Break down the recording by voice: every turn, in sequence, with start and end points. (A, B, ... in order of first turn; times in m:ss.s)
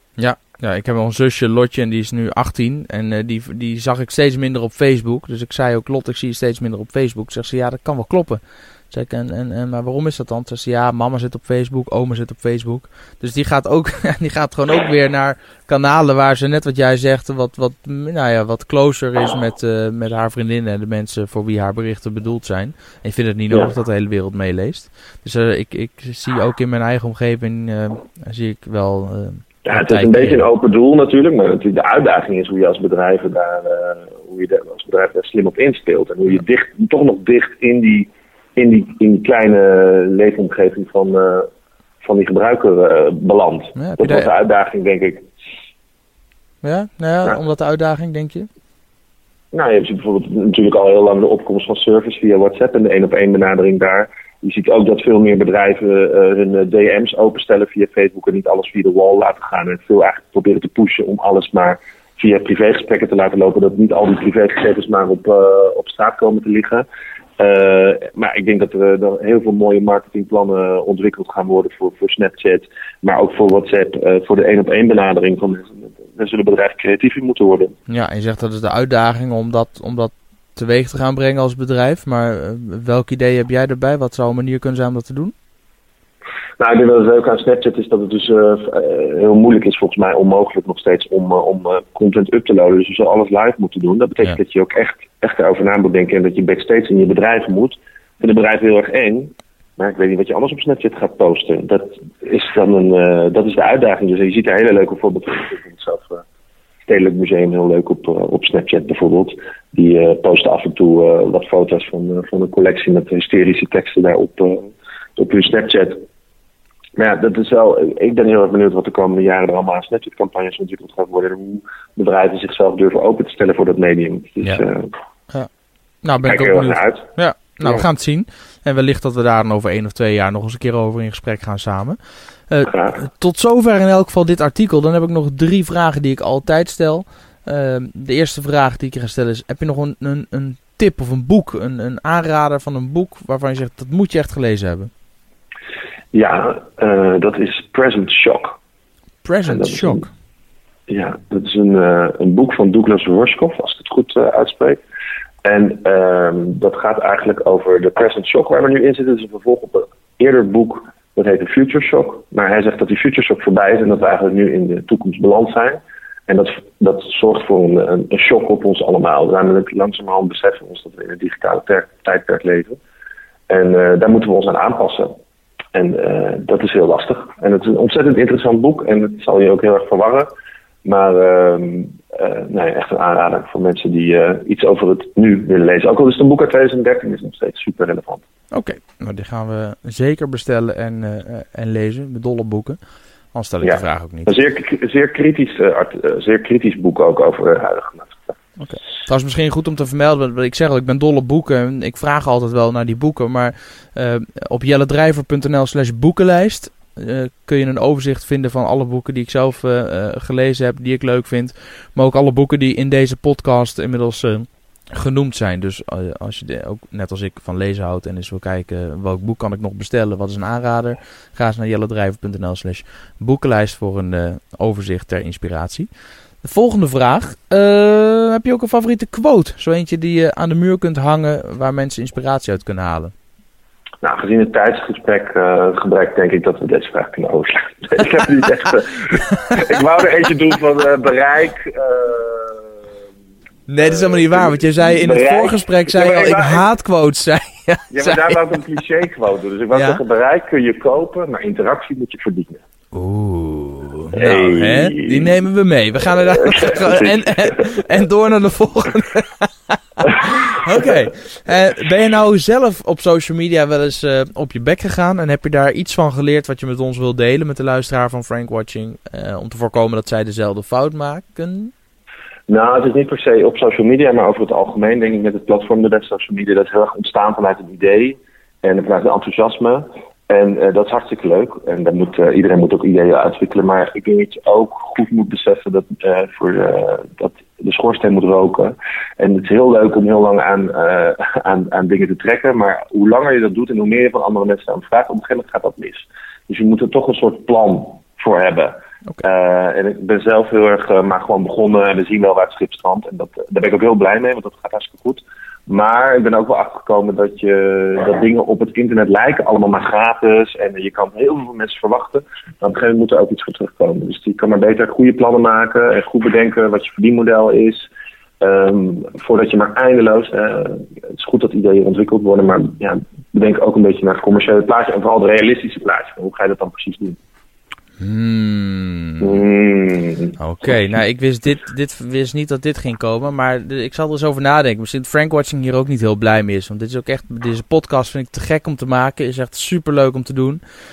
0:00.2-0:30.4 A
0:29.6-0:41.5 B
0:42.0-0:45.3 B
0:43.8-0:44.3 A
0:46.6-0:48.5 A
0:49.5-1:06.9 B
1:07.4-1:17.8 B
1:17.9-1:25.3 A
1:26.6-1:46.2 B
1:46.9-1:56.0 B
1:57.0-2:04.9 B
2:06.0-2:12.0 A
2:06.3-2:07.1 B
2:07.6-2:07.9 B
2:12.5-2:24.9 A
2:12.7-2:13.0 B
2:26.1-2:28.6 B
2:29.2-2:30.1 A
2:29.5-2:30.0 B
2:30.9-2:34.8 B
2:35.4-2:52.8 B
2:53.5-2:55.2 B
2:55.7-3:00.3 B
3:00.8-3:08.2 B
3:08.5-3:12.8 A
3:13.3-3:14.4 A
3:13.6-3:18.4 B
3:18.6-3:45.9 A
3:46.4-3:53.1 A
3:54.0-4:02.7 B
3:59.2-3:59.8 A
4:03.7-4:08.4 A
4:03.8-4:06.6 B
4:07.9-4:12.6 B
4:09.7-4:10.0 A
4:12.9-4:31.7 A
4:14.1-4:15.4 B
4:16.2-4:17.8 B
4:32.5-5:17.9 B
5:18.4-5:27.2 B
5:28.0-5:29.4 A
5:29.2-5:30.4 B
5:30.4-5:40.6 A